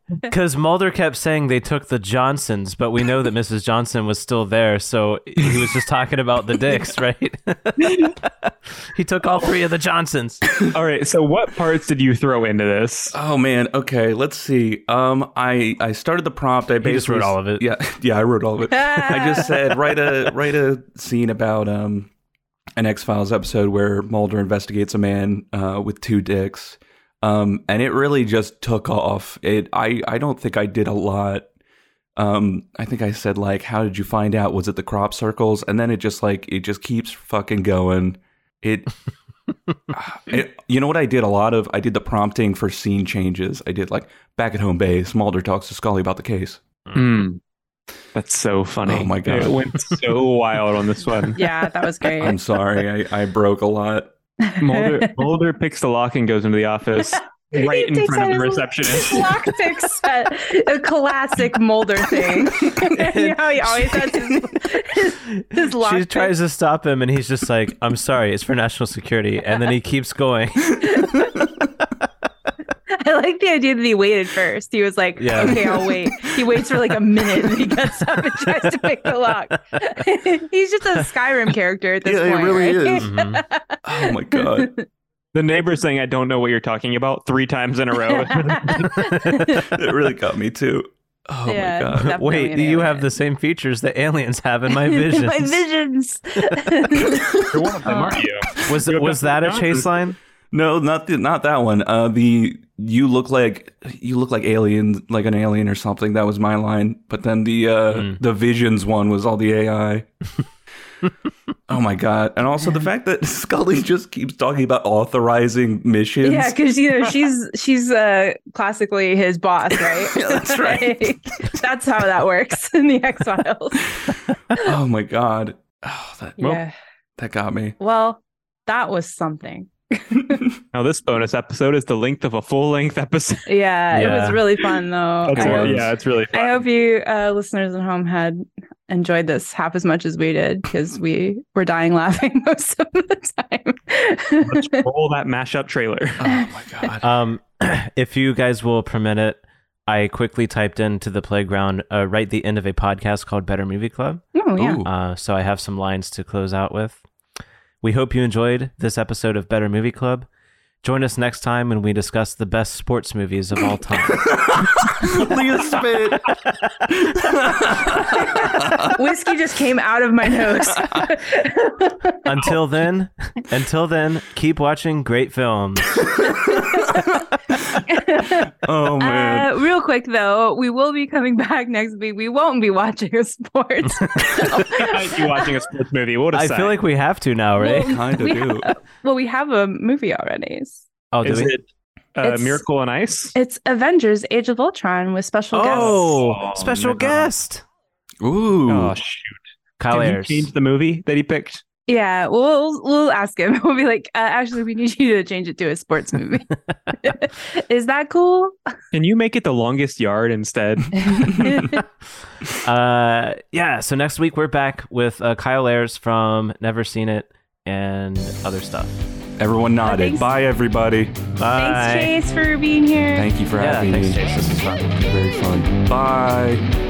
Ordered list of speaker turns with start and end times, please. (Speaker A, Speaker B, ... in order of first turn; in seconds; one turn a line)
Speaker A: 0.2-10.4
Speaker B: 10.6-13.2
Speaker C: 13.1-22.1
Speaker A: 16.8-17.6
Speaker D: 18.8-19.5
Speaker C: 22.8-31.5
Speaker C: 32.2-38.9
Speaker C: 39.9-46.6
Speaker B: 46.9-47.4
Speaker B: 48.1-51.4
Speaker C: 48.9-49.6
Speaker D: 51.3-52.4
Speaker C: 52.2-54.1
Speaker D: 54.5-55.0
Speaker B: 54.6-59.4
Speaker D: 57.0-66.3
Speaker A: 62.8-64.1
Speaker A: 65.8-70.9
Speaker D: 70.8-71.5
Speaker D: 72.9-84.8
Speaker A: 75.2-75.8
Speaker C: 75.6-76.6
Speaker C: 82.0-83.1
Speaker A: 83.0-83.4
Speaker C: 83.8-84.7
Speaker B: 85.3-89.1
Speaker D: 88.3-89.7
Speaker A: 89.0-89.6
Speaker C: 89.4-92.2
Speaker D: 91.5-93.1
Speaker A: 92.0-95.6
Speaker D: 94.7-98.2
Speaker B: 97.3-99.9
Speaker A: 98.6-100.2
Speaker C: 100.5-110.0
Speaker C: 111.7-116.5
Speaker D: 116.2-123.9
Speaker C: 119.9-121.2
Speaker C: 124.5-126.6
Speaker D: 126.4-126.7
Speaker C: 127.2-127.8
Speaker D: 127.8-130.5
Speaker B: 130.7-136.6
Speaker D: 133.5-135.7
Speaker A: 133.9-134.4
Speaker C: 135.3-135.9
Speaker D: 136.3-144.8
Speaker B: 144.4-146.2
Speaker C: 146.2-147.1
Speaker A: 147.0-154.2
Speaker D: 154.3-154.8
Speaker C: 154.6-154.9
Speaker A: 154.8-157.0
Speaker A: 157.8-160.3
Speaker A: 160.8-165.1
Speaker C: 164.1-166.3
Speaker C: 166.9-168.9
Speaker D: 168.2-172.5
Speaker C: 170.7-171.1
Speaker A: 172.2-175.9
Speaker C: 176.3-177.1
Speaker D: 176.3-177.1
Speaker D: 177.8-185.5
Speaker C: 178.4-179.6
Speaker B: 184.2-186.8
Speaker A: 186.3-188.0
Speaker D: 187.6-190.8
Speaker C: 187.7-188.7
Speaker A: 191.1-191.5
Speaker B: 191.2-193.3
Speaker D: 192.2-192.6
Speaker D: 193.3-196.2
Speaker A: 195.5-197.6
Speaker B: 195.7-197.3
Speaker C: 198.2-198.9
Speaker B: 198.7-201.6
Speaker A: 199.8-200.5
Speaker D: 201.9-208.6
Speaker B: 208.9-211.6
Speaker D: 210.9-211.8
Speaker A: 212.5-219.0
Speaker C: 219.4-221.2
Speaker D: 219.8-220.3
Speaker A: 221.4-222.1
Speaker D: 221.5-223.3
Speaker C: 223.1-226.6
Speaker A: 223.6-224.8